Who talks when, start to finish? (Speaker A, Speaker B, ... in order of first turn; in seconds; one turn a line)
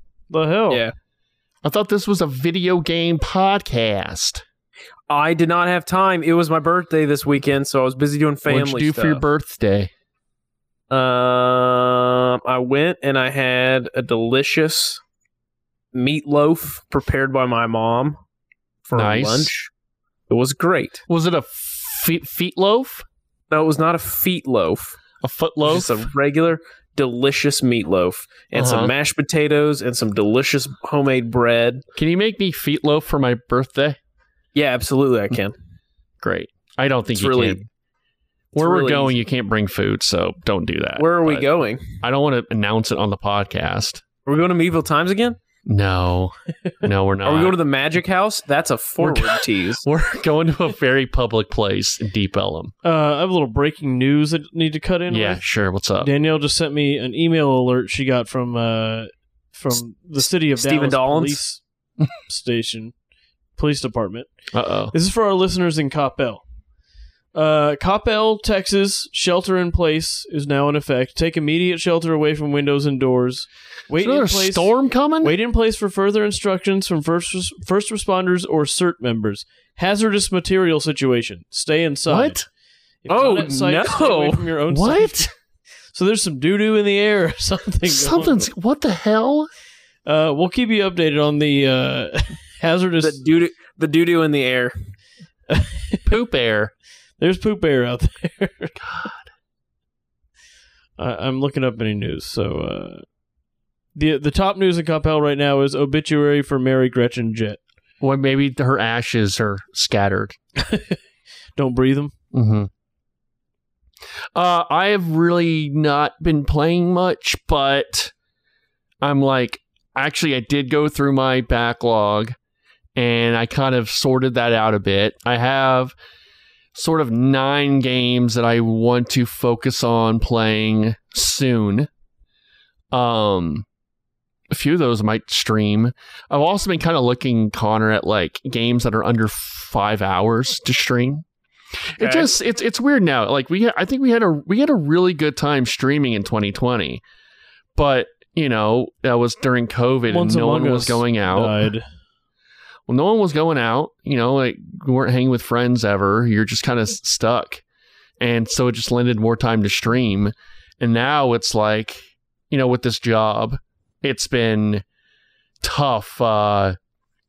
Speaker A: 0.3-0.8
Speaker B: 1.6-4.4
Speaker C: 5.1-9.2
Speaker B: 8.5-9.9
Speaker C: 10.9-15.0
Speaker C: 15.9-18.2
Speaker C: 18.9-19.7
Speaker B: 18.9-19.5
Speaker C: 20.3-21.0
Speaker B: 21.1-23.1
Speaker C: 23.5-25.0
Speaker B: 25.2-26.1
Speaker C: 25.6-31.8
Speaker B: 28.5-28.9
Speaker B: 31.9-34.0
Speaker C: 34.5-35.6
Speaker B: 36.2-37.6
Speaker C: 37.1-37.6
Speaker B: 38.5-41.5
Speaker C: 38.6-39.2
Speaker C: 41.0-42.0
Speaker B: 42.0-44.0
Speaker C: 44.3-45.4
Speaker B: 45.7-47.6
Speaker C: 47.2-49.8
Speaker B: 49.0-52.7
Speaker A: 52.8-55.4
Speaker B: 55.1-56.1
Speaker A: 56.0-61.6
Speaker C: 60.2-61.4
Speaker A: 62.2-62.9
Speaker A: 63.6-64.3
Speaker B: 64.5-64.9
Speaker A: 64.9-66.4
Speaker A: 67.3-82.4
Speaker B: 74.0-75.3
Speaker B: 82.1-82.5
Speaker A: 83.0-85.3
Speaker C: 83.1-84.5
Speaker B: 84.7-85.3
Speaker A: 85.9-88.4
Speaker B: 87.9-89.5
Speaker A: 90.0-93.2
Speaker C: 93.0-94.8
Speaker A: 95.5-96.1
Speaker B: 96.1-96.7
Speaker A: 97.2-98.8
Speaker B: 98.8-99.3
Speaker A: 101.0-103.0
Speaker A: 104.0-107.6
Speaker B: 108.0-110.4
Speaker A: 110.6-111.0
Speaker A: 111.6-112.1
Speaker B: 112.3-112.7
Speaker B: 114.3-118.1
Speaker B: 119.0-122.3
Speaker B: 123.0-126.0
Speaker B: 126.7-131.9
Speaker B: 132.9-133.7
Speaker B: 134.5-141.2
Speaker B: 141.9-147.0
Speaker B: 147.8-151.7
Speaker A: 150.1-151.8
Speaker B: 152.9-157.6
Speaker B: 158.2-164.8
Speaker B: 165.6-166.8